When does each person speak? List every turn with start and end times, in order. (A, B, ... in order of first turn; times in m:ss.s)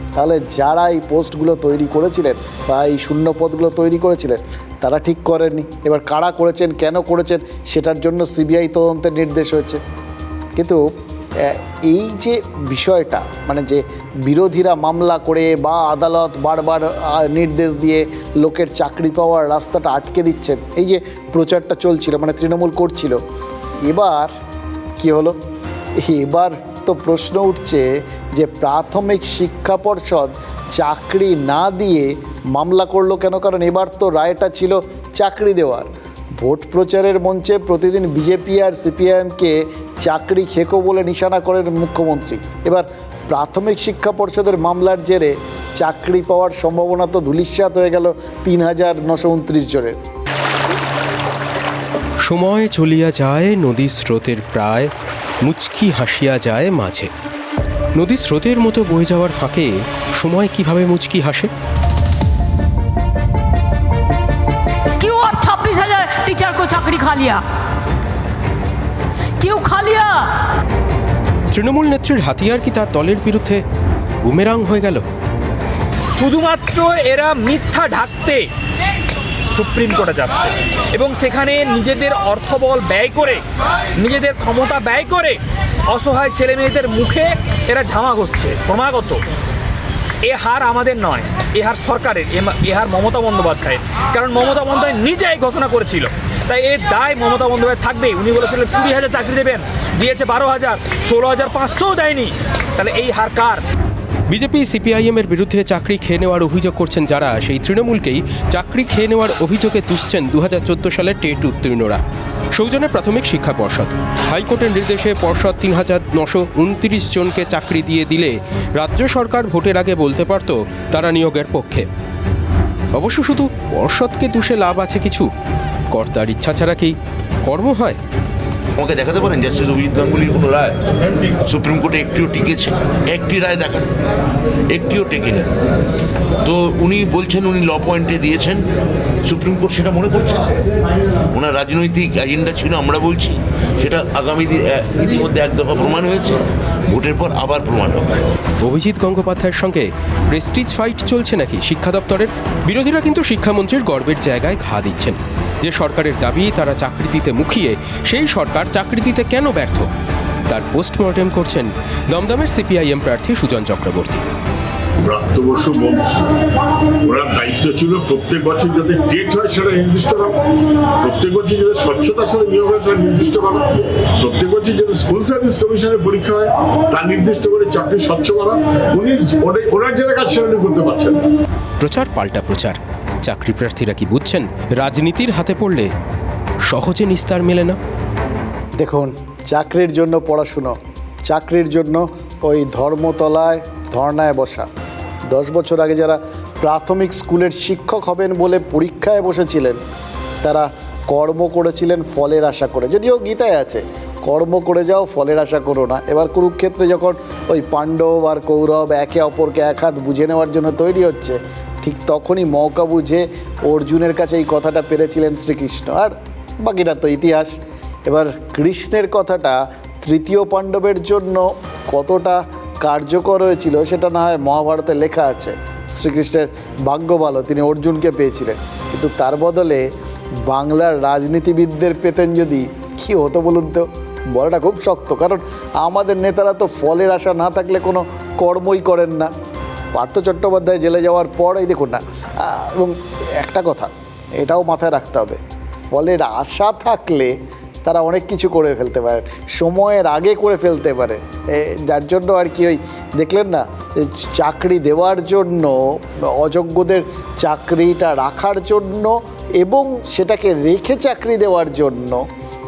0:00.2-0:09.8 A
0:10.6-0:10.8 A
0:11.4-0:23.2 A
0:23.8-0:24.3 A
0:25.0-0:25.4 A
0:26.0-0:35.9 A
0:36.4-0:50.0 A
0:52.2-0:57.1 B
0:58.0-1:01.5 B
1:05.0-1:07.4 C
1:09.4-1:10.4 C
1:11.5-1:13.6 B
1:14.2-1:15.0 B
1:16.2-1:18.5 D
1:19.5-1:23.4 D
1:24.0-1:25.4 D
1:25.9-1:29.2 D
1:30.2-1:43.6 D
1:44.3-1:52.0 B
1:52.5-2:01.9 B
2:02.9-2:05.3 B
2:05.9-2:08.0 B
2:08.8-2:10.8 E
2:11.4-2:13.8 E
2:14.7-2:15.6 E
2:16.4-2:18.6 E
2:19.2-2:20.6 E
2:21.3-2:26.4 E
2:26.9-2:28.1 E
2:28.6-2:39.9 B
2:40.5-2:44.2 B
2:45.0-2:46.4 F
2:47.0-2:50.4 F
2:51.0-3:01.3 F
3:01.8-3:05.9 B
3:06.7-3:07.8 B
3:08.8-3:10.7 A
3:11.3-3:14.7 A
3:15.3-3:19.8 A
3:20.4-3:49.8 A
3:50.4-3:59.3 A
3:59.9-4:05.4 A
4:05.9-4:22.2 A